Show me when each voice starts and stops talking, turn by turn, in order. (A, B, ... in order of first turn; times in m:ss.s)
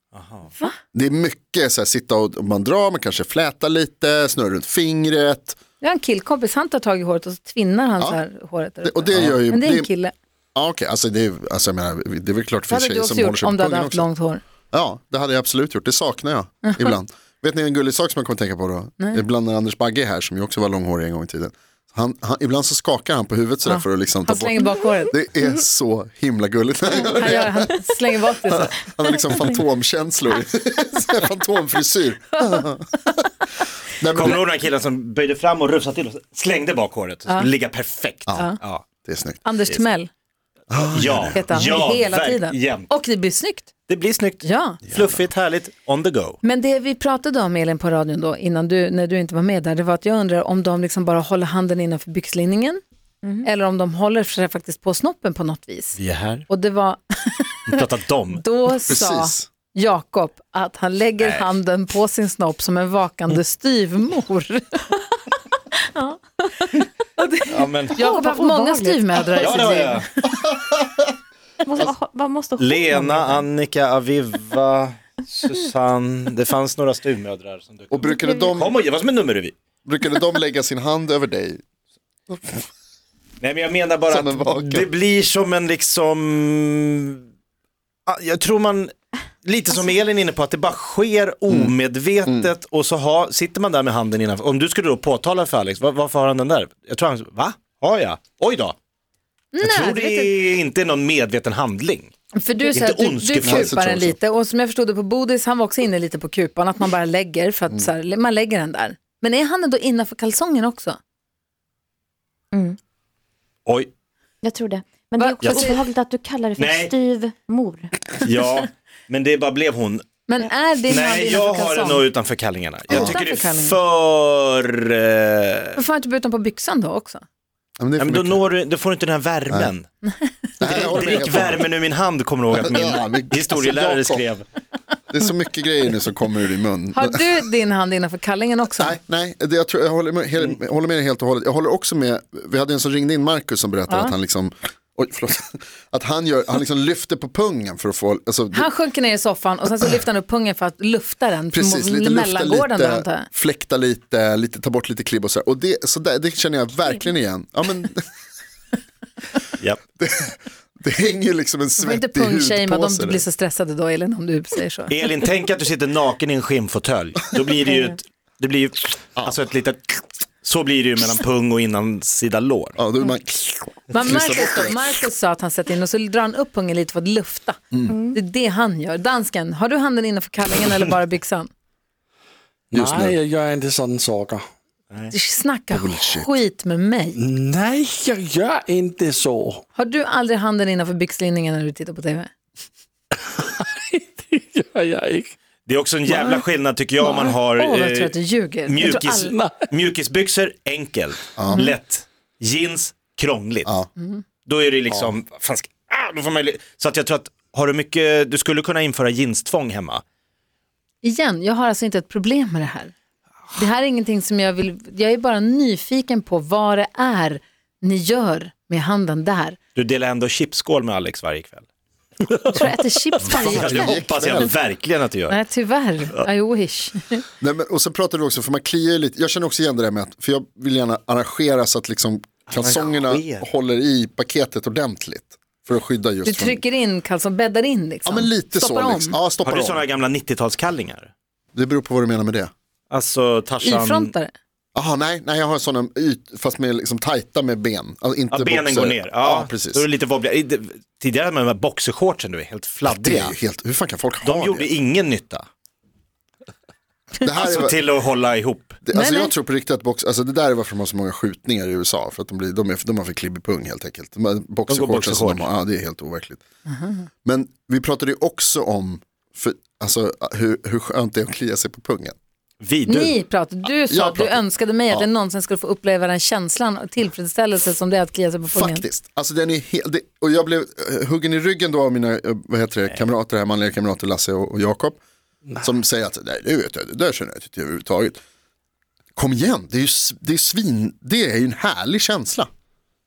0:00.1-0:00.5 A
0:00.9-0:05.6 B
0:05.8-0:10.1 C
0:08.8-0:09.9 B
0:10.6-0:14.1 B
0:12.7-0:14.4 C
0:14.7-0:27.8 B
0:16.6-0:16.9 C
0:23.6-0:25.1 C
0:27.1-0:29.2 C
0:28.5-0:33.2 B
0:34.0-0:34.4 B
0:34.1-0:38.8 A
0:38.3-0:39.4 B
0:39.4-0:40.1 C
0:40.7-0:41.4 B
0:40.9-0:42.9 A
0:41.3-0:43.7 C
0:43.9-0:46.4 A
0:44.4-0:44.8 C
0:44.9-0:45.2 B
0:46.4-0:52.8 C
0:53.4-0:57.7 C
0:56.0-0:56.5 A
0:57.7-0:58.4 A
0:58.4-1:05.0 C
0:58.9-0:59.5 B
1:01.2-1:01.5 A
1:06.5-1:10.1 C
1:07.5-1:08.0 A
1:08.0-1:09.9 D
1:09.4-1:10.1 A
1:10.4-1:11.0 B
1:11.6-1:13.5 D
1:12.6-1:19.5 A
1:17.9-1:18.8 B
1:18.0-1:18.6 D
1:19.8-1:21.6 B
1:22.3-1:22.6 B
1:23.4-1:27.2 A
1:24.1-1:24.9 B
1:28.1-1:28.9 A
1:29.4-1:38.8 A
1:31.5-1:31.7 B
1:39.5-1:40.4 C
1:39.6-1:42.1 A
1:42.4-1:51.0 C
1:42.6-1:43.8 A
1:43.4-1:44.2 B
1:52.5-1:52.8 D
1:54.4-1:58.0 D
1:55.2-1:55.8 C
1:55.4-1:55.7 A
1:56.6-1:56.9 A
1:58.2-2:00.1 A
2:00.3-2:02.1 C
2:00.9-2:05.8 A
2:02.9-2:03.2 B
2:02.9-2:03.8 C
2:05.8-2:07.2 C
2:07.8-2:08.4 B
2:08.0-2:09.9 A
2:10.6-2:11.6 B
2:10.6-2:14.4 A
2:12.5-2:14.2 B
2:15.1-2:17.3 B
2:16.9-2:19.0 C
2:18.8-2:28.7 B
2:23.9-2:24.1 C
2:28.5-2:33.3 C
2:31.5-2:38.1 B
2:40.0-2:43.2 B
2:41.8-2:44.9 C
2:44.9-2:52.8 A
2:47.6-2:48.0 D
2:52.8-2:54.9 B
2:53.9-2:57.6 C
2:57.7-2:58.0 B
2:57.9-2:58.2 D
2:58.1-3:01.5 C
3:02.7-3:04.4 E
3:02.7-3:03.2 B
3:05.1-3:07.2 C
3:05.7-3:06.3 B
3:07.2-3:09.6 E
3:09.8-3:12.3 C
3:13.2-3:15.3 E
3:15.7-3:18.1 A
3:17.0-3:19.3 C
3:18.6-3:23.7 A
3:19.0-3:19.6 E
3:21.4-3:21.7 B
3:24.0-3:24.2 C
3:24.5-3:30.0 A
3:31.0-3:32.9 C
3:33.6-3:39.6 C
3:39.8-3:41.6 A
3:42.5-3:44.1 C
3:43.2-3:45.4 A
3:43.3-3:44.5 B
3:45.3-3:47.2 C
3:47.4-3:56.6 B
3:52.5-3:53.5 A
3:56.2-3:59.2 C
3:58.0-3:59.8 B
3:59.4-4:01.1 A
4:01.5-4:02.5 B
4:02.9-4:04.1 A
4:03.6-4:04.3 C
4:04.8-4:09.8 B
4:08.3-4:13.4 A
4:12.9-4:14.7 B
4:14.2-4:15.5 A
4:17.2-4:17.8 B
4:17.3-4:18.8 A
4:18.8-4:26.4 B
4:18.9-4:19.3 C
4:24.7-4:25.5 A
4:26.7-4:27.1 C
4:27.2-4:32.2 B
4:32.6-4:33.2 A
4:32.9-4:38.8 C
4:33.9-4:35.1 B
4:38.5-4:45.0 B
4:45.6-4:48.2 B
4:49.2-4:52.5 B